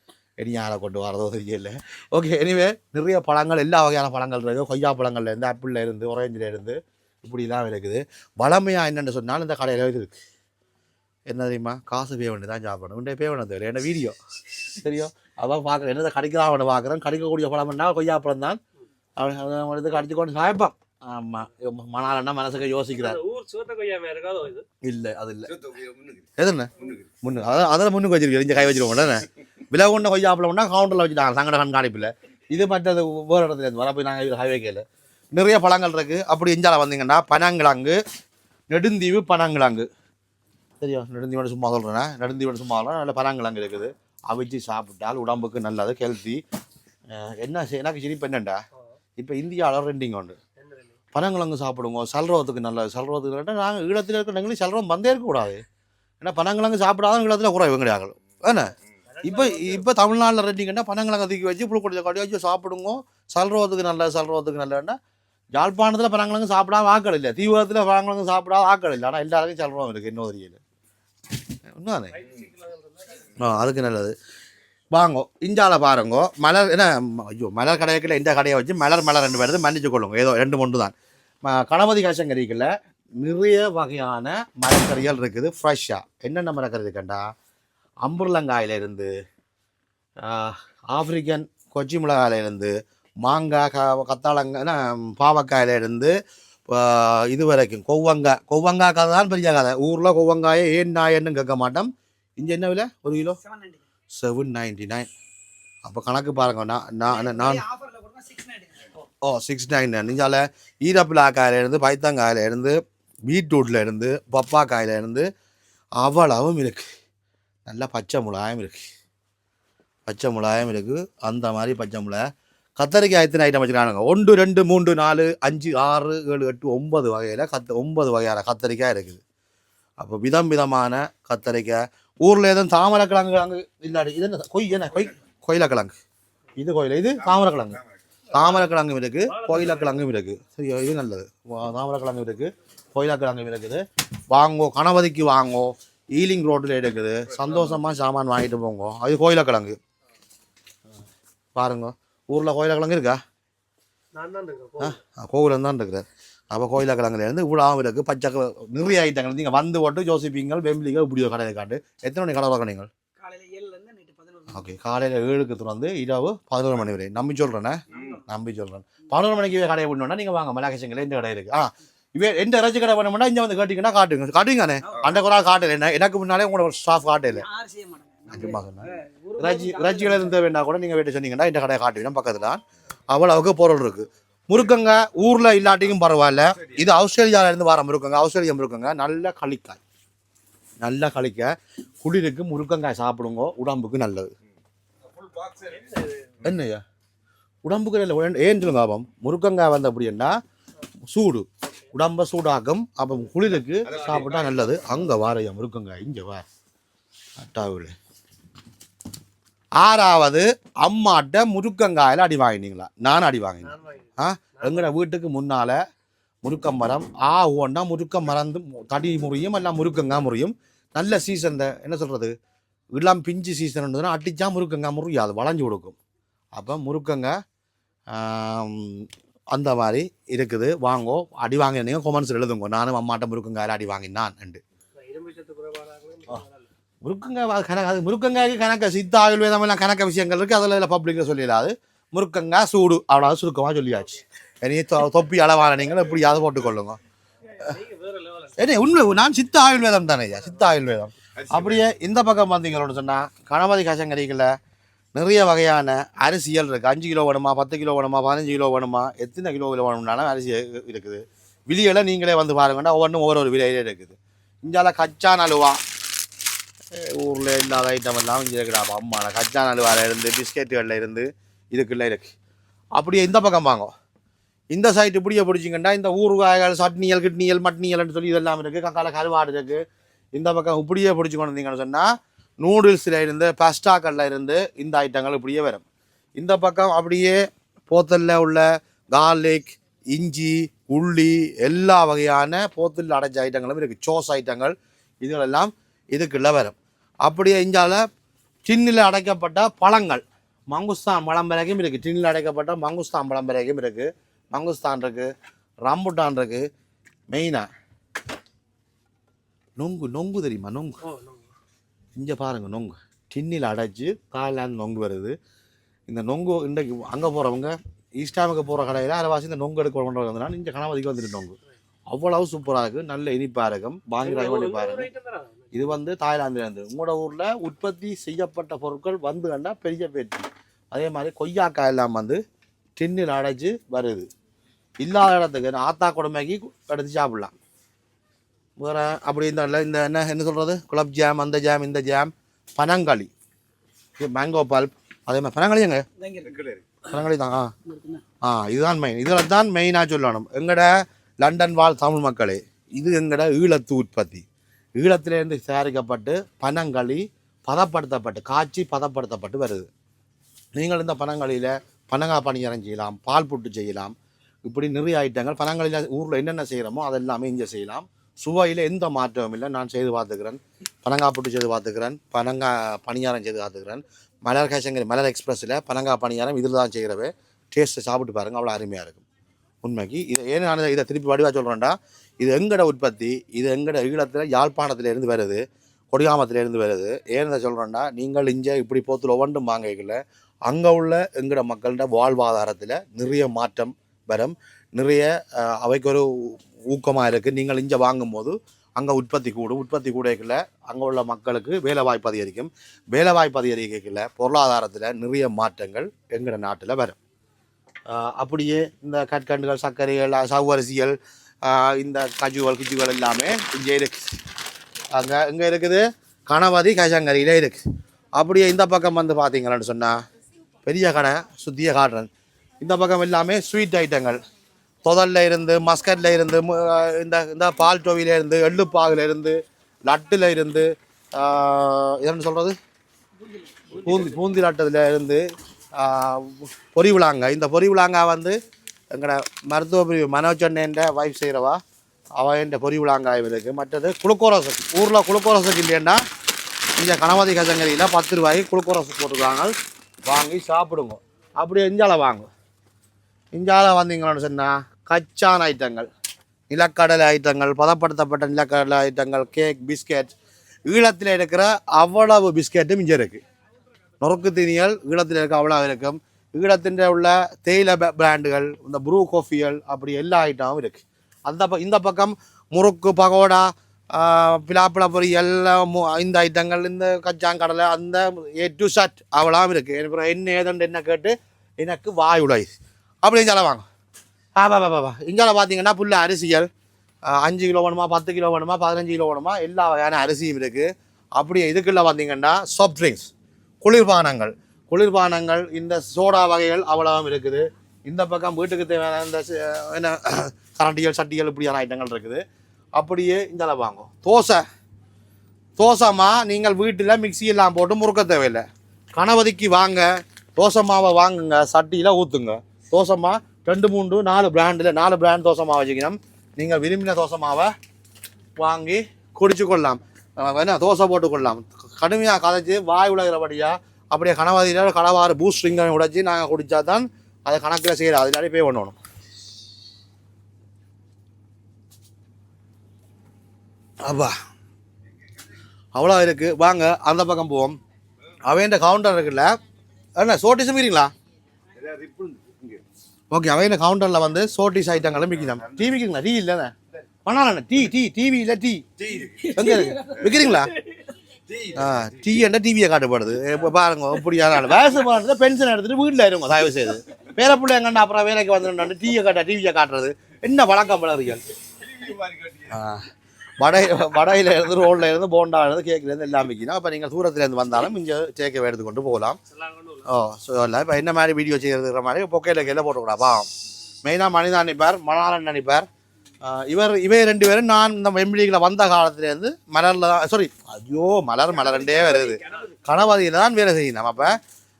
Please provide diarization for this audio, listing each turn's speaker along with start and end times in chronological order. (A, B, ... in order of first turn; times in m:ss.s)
0:00.4-0:10.1 A
0:11.3-0:18.6 A
0:19.2-0:23.2 A
0:23.0-0:24.6 B
0:24.8-0:25.6 A
0:26.4-0:38.0 A
0:38.7-0:39.9 A
0:40.8-0:46.4 A
0:47.1-0:48.6 A
0:49.2-0:50.4 A
0:50.6-0:51.0 B
0:51.1-0:55.6 A
0:56.2-1:05.0 A
0:59.1-0:59.9 B
1:05.5-1:10.6 A
1:11.7-1:12.2 A
1:12.1-1:13.3 B
1:13.4-1:14.1 A
1:14.9-1:20.9 A
1:21.4-1:27.3 A
1:28.0-1:29.1 A
1:30.2-1:32.7 A
1:33.2-1:36.1 A
1:36.7-1:43.4 A
1:43.4-1:43.8 C
1:44.1-1:45.1 A
1:45.8-1:47.6 A
1:47.0-1:48.9 C
1:49.2-1:55.3 A
1:56.0-1:56.9 A
1:57.6-1:58.8 A
2:00.0-2:02.2 A
2:02.8-2:09.2 A
2:10.0-2:16.0 A
2:16.6-2:17.8 A
2:18.3-2:29.8 A
2:19.3-2:20.0 B
2:31.5-2:33.2 A
2:34.1-2:35.0 B
2:34.8-2:42.9 A
2:43.2-2:44.7 C
2:44.5-2:57.4 A
2:47.9-2:48.2 C
2:57.4-3:00.3 C
2:58.3-3:09.8 A
3:10.8-3:11.5 A
3:12.0-3:14.3 A
3:15.8-3:16.0 B
3:16.4-3:16.8 A
3:17.6-3:20.4 A
3:21.1-3:26.4 A
3:27.4-3:27.9 A
3:29.8-3:35.8 A
3:33.6-3:34.0 B
3:34.6-3:34.9 B
3:36.4-3:42.3 A
3:42.9-3:46.0 A
3:46.5-3:47.3 A
3:48.1-3:54.6 A
3:55.0-3:56.7 B
3:57.0-4:07.0 A
4:07.5-4:08.6 B
4:08.6-4:14.5 A
4:15.1-4:25.8 A
4:26.9-4:32.3 A
4:33.0-4:33.9 A
4:34.7-4:39.8 A
4:40.3-4:42.1 A
4:42.6-4:45.8 A
4:46.4-4:58.0 A
4:58.6-5:05.3 A
5:05.8-5:06.7 A
5:07.3-5:07.7 A
5:09.8-5:11.0 A
5:11.0-5:11.4 B
5:12.2-5:15.4 A
5:16.1-5:21.5 A
5:22.1-5:25.1 A
5:24.2-5:25.8 B
5:25.7-5:32.4 A
5:33.0-5:34.3 A
5:35.0-5:37.5 A
5:38.8-5:43.3 A
5:44.2-5:46.0 A
5:46.2-5:46.7 C
5:47.0-5:47.7 A
5:47.8-5:48.2 C
5:48.4-5:54.4 A
5:55.0-5:59.9 A
6:00.8-6:04.1 A
6:04.6-6:19.2 A
6:19.8-6:25.6 A
6:26.1-6:47.2 A
6:48.1-6:54.3 A
6:55.1-6:57.8 A
6:58.4-7:00.2 A
7:00.8-7:02.3 A
7:02.8-7:04.4 A
7:05.0-7:12.7 A
7:13.9-7:15.4 A
7:16.0-7:18.6 A
7:19.1-7:21.8 A
7:22.4-7:26.2 A
7:27.0-7:29.7 A
7:30.2-7:32.5 A
7:33.5-7:36.1 A
7:36.7-7:40.3 A
7:40.9-7:43.4 A
7:44.2-8:02.7 A
8:03.2-8:03.8 A
8:04.6-8:06.7 A
8:07.3-8:13.3 A
8:13.8-8:22.4 A
8:23.0-8:24.6 A
8:25.8-8:37.7 A
8:38.6-8:49.0 A
8:54.0-8:54.3 A
8:55.9-8:57.8 A
8:58.5-8:59.5 A
9:00.2-9:01.1 A
9:03.3-9:10.7 A
9:09.3-9:11.0 C
9:11.6-9:21.4 A
9:22.5-9:23.1 A
9:23.6-9:29.4 A
9:29.5-9:30.0 B
9:30.0-9:33.5 A
9:34.0-9:35.9 A
9:36.4-9:44.4 A